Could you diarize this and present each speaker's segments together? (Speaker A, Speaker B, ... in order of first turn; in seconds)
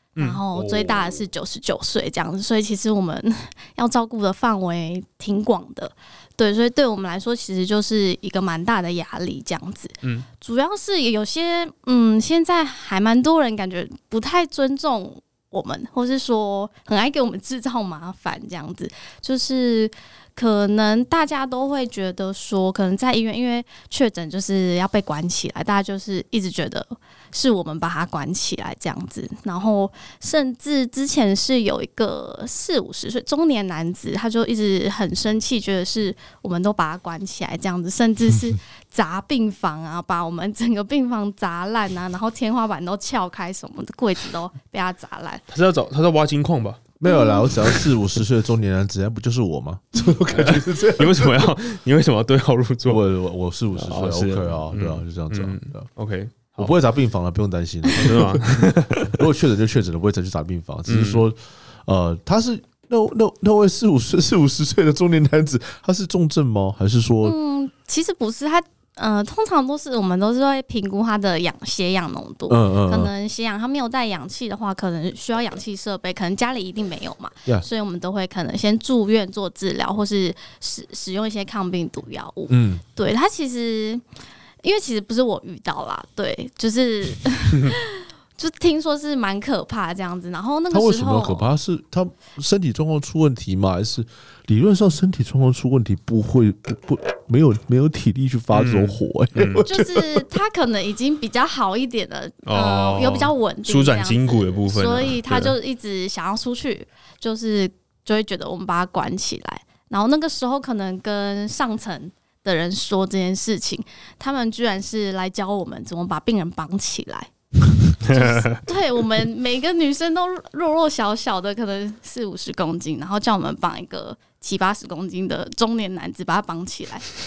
Speaker A: 0.1-0.8, 45.5-46.9, 50.3-53.0, 53.7-56.7, 57.9-59.2, 60.9-61.2, 98.5-99.6, 102.4-105.5, 118.0-118.6
Speaker B: 0.2-45.4, 47.0-47.6, 67.2-84.0, 84.6-91.5, 99.6-117.3, 117.9-127.1
Speaker C: 47.0-51.5, 52.9-55.9, 56.6-67.3, 72.5-73.1, 82.5-82.8, 90.7-100.2